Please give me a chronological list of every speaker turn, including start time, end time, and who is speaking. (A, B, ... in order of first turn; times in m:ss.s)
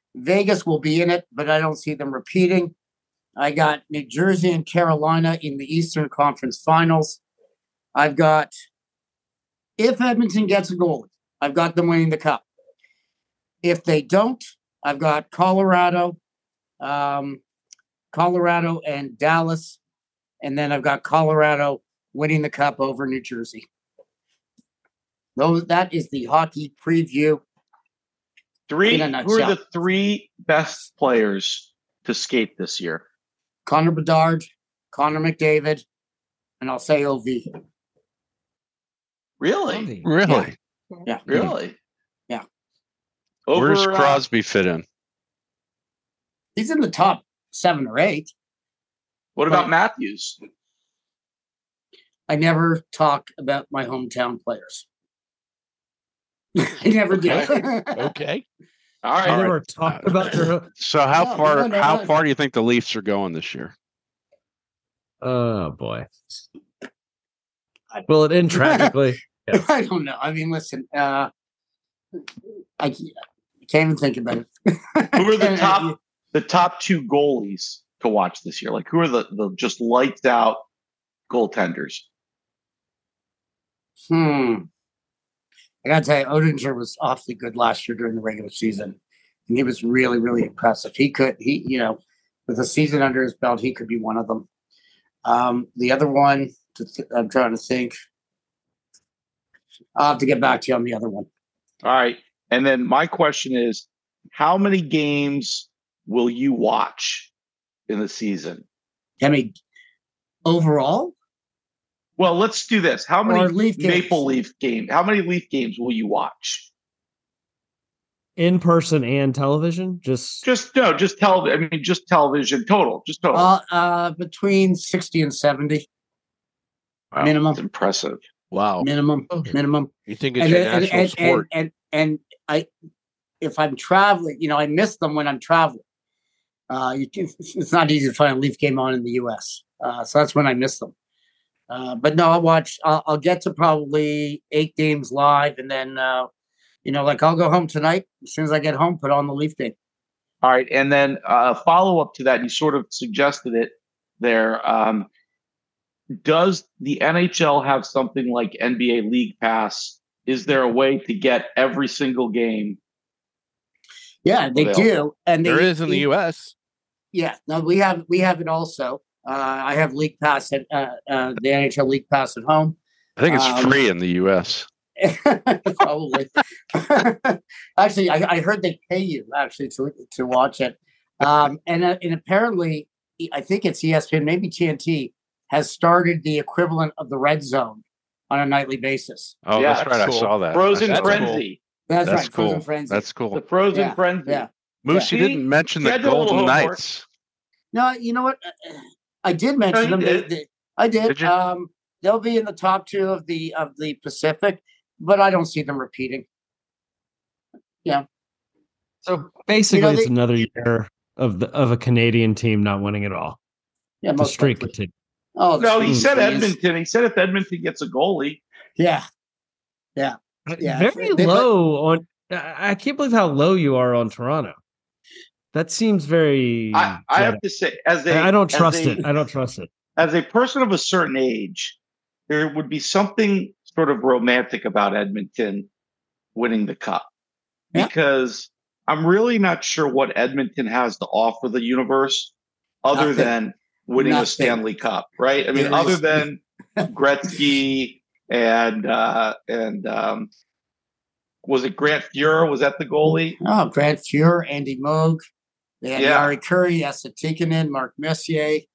0:00.2-0:02.7 A
0:03.4-0:07.2 A
0:08.0-0:08.5 A
0:09.8-0:12.4 A
0:13.6-0:16.2 A
0:16.8-0:17.4 A
0:18.1-0:19.8 A
0:20.4-0:23.7 A
0:25.4-0:27.4 A
0:28.7-0:33.0 B
0:28.9-0:29.6 A
0:33.7-0:35.8 A
0:36.6-0:37.5 A
0:39.4-0:39.9 B
0:39.7-0:40.1 C
0:40.0-0:40.6 D
0:41.3-0:41.7 B
0:41.3-0:41.6 D
0:43.5-0:44.2 B
0:43.5-0:44.8 D
0:46.6-0:48.3 A
0:49.4-0:50.4 B
0:52.3-0:54.8 A
0:56.6-0:58.0 A
0:57.9-0:58.4 E
0:59.0-0:59.5 B
0:59.2-1:00.7 C
0:59.3-1:03.7 D
1:01.2-1:02.1 A
1:05.2-1:06.4 C
1:07.9-1:09.0 A
1:08.1-1:09.6 C
1:09.5-1:11.3 A
1:12.8-1:16.0 A
1:15.2-1:20.6 B
1:21.3-1:22.0 B
1:24.1-1:24.7 A
1:25.8-1:29.0 A
1:29.5-1:34.5 A
1:35.2-1:37.9 A
1:40.0-1:41.3 A
1:41.8-1:47.3 B
1:47.9-1:48.6 B
1:49.2-1:49.5 A
1:50.5-1:51.1 A
1:52.2-1:56.7 B
1:53.2-1:54.2 A
1:58.4-2:00.4 C
2:00.4-2:03.5 B
2:03.3-2:05.8 A
2:07.2-2:07.6 A
2:07.6-2:08.2 B
2:08.5-2:08.9 E
2:08.8-2:12.7 A
2:09.3-2:09.6 C
2:10.1-2:11.5 E
2:13.4-2:15.8 A
2:16.7-2:20.9 A
2:21.7-2:26.3 A
2:26.8-2:29.8 A
2:30.4-2:35.1 B
2:36.2-2:42.8 B
2:44.2-2:46.1 A
2:44.6-2:44.9 B
2:45.4-2:46.5 E
2:47.1-2:52.8 A
2:53.2-2:54.7 D
2:53.3-2:53.8 A
2:55.0-3:09.4 A
3:09.4-3:11.4 D
3:09.6-3:09.9 B
3:09.7-3:11.4 E
3:10.5-3:11.6 B
3:11.9-3:13.1 A
3:12.1-3:13.4 D
3:13.3-3:14.5 B
3:13.7-3:15.1 A
3:14.8-3:17.0 D
3:15.1-3:16.8 B
3:17.7-3:26.3 A
3:19.7-3:20.3 B
3:21.1-3:21.3 D
3:29.0-3:33.4 C
3:29.7-3:30.1 A
3:34.0-3:34.7 A
3:34.2-3:34.9 C
3:35.4-3:36.5 A
3:35.6-3:38.4 B
3:38.8-3:39.0 A
3:40.0-3:41.5 A
3:40.5-3:44.6 C
3:45.5-3:47.4 C
3:46.7-3:49.0 B
3:48.1-3:49.7 C
3:50.0-3:51.8 B
3:52.3-3:55.7 B
3:56.4-3:57.1 B
3:57.7-4:02.3 B
4:02.8-4:10.3 B
4:03.0-4:03.3 A
4:04.0-4:04.6 A
4:05.5-4:06.2 A
4:11.4-4:13.4 B
4:13.4-4:15.2 A
4:15.8-4:18.6 A
4:16.0-4:16.3 B